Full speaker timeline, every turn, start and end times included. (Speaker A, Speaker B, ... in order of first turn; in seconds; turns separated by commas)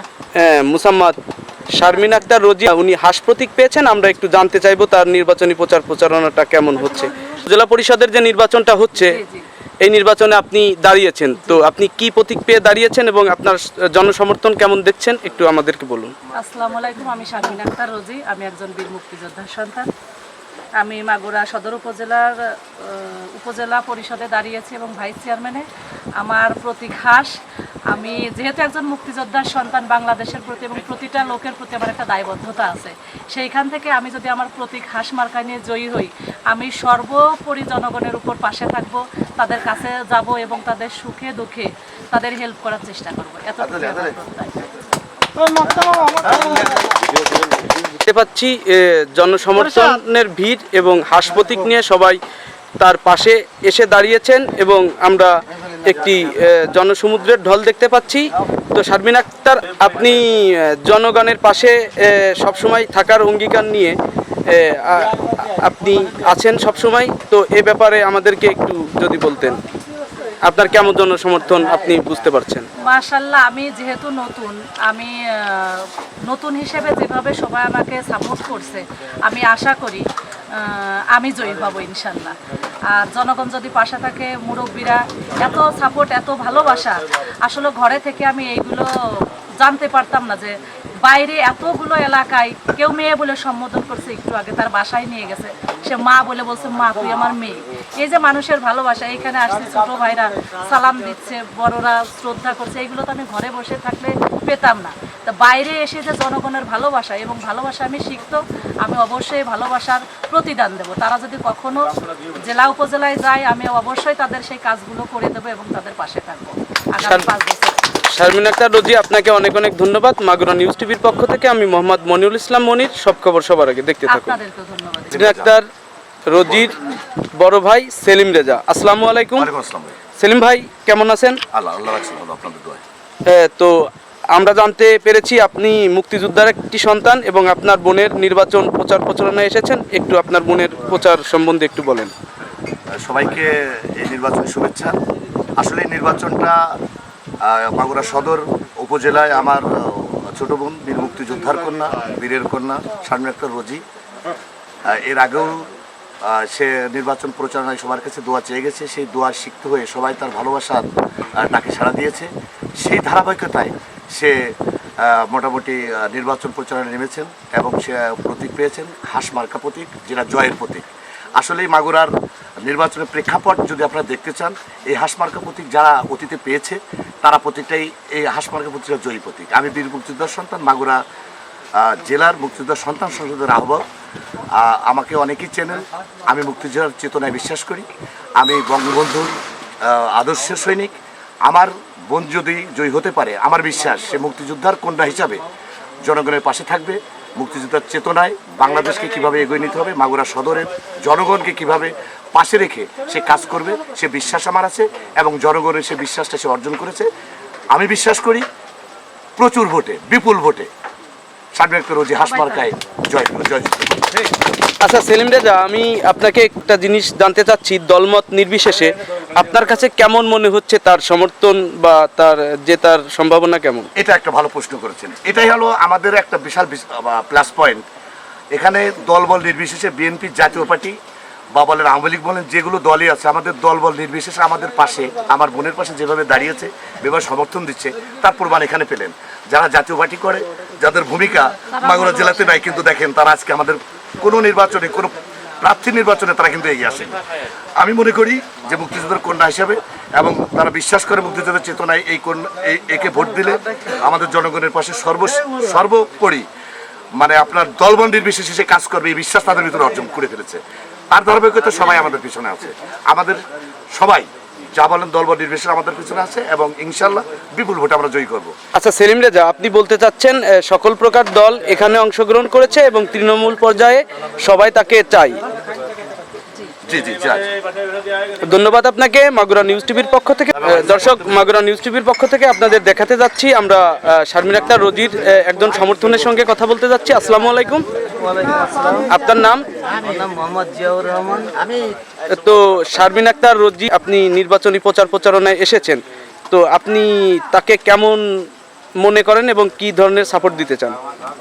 Speaker A: 0.3-1.1, Speaker A: 1.7-9.2, Speaker B: 8.9-9.4, Speaker A: 9.8-16.1, Speaker B: 16.3-19.9, Speaker B: 20.8-25.6, Speaker B: 26.2-27.3, Speaker B: 27.9-44.6, Speaker C: 43.6-44.1, Speaker C: 46.3-46.5, Speaker A: 48.0-52.2, Speaker A: 52.8-64.0, Speaker A: 64.5-69.6, Speaker A: 70.4-72.7, Speaker B: 72.8-82.3, Speaker B: 82.9-117.8, Speaker A: 118.1-124.3, Speaker B: 124.1-125.3, Speaker C: 125.1-125.5, Speaker A: 125.1-125.7, Speaker A: 126.3-126.8, Speaker A: 127.3-129.5, Speaker C: 129.4-129.9, Speaker A: 130.2-131.4, Speaker C: 131.5-132.8, Speaker A: 133.2-133.7, Speaker A: 134.3-142.1, Speaker C: 142.9-144.9, Speaker C: 145.6-146.6, Speaker C: 147.4-153.8, Speaker C: 154.8-155.7, Speaker C: 156.2-172.1, Speaker C: 172.6-181.0, Speaker C: 181.8-183.8, Speaker C: 184.6-190.9, Speaker C: 191.4-195.4, Speaker C: 196.0-207.1, Speaker C: 207.7-208.5, Speaker C: 209.4-210.7, Speaker C: 211.6-214.2, Speaker B: 212.2-212.7, Speaker A: 214.8-223.9, Speaker C: 223.9-227.8, Speaker C: 228.5-230.9, Speaker C: 231.5-247.2, Speaker B: 241.7-242.7, Speaker C: 247.8-256.4, Speaker C: 257.1-260.6, Speaker C: 261.1-263.4, Speaker C: 263.9-268.5, Speaker A: 268.7-275.4, Speaker C: 276.9-277.5, Speaker A: 278.4-287.8, Speaker C: 280.6-281.2, Speaker D: 288.1-289.1, Speaker A: 289.1-289.6, Speaker D: 290.0-291.5, Speaker A: 292.3-298.2, Speaker A: 299.0-301.0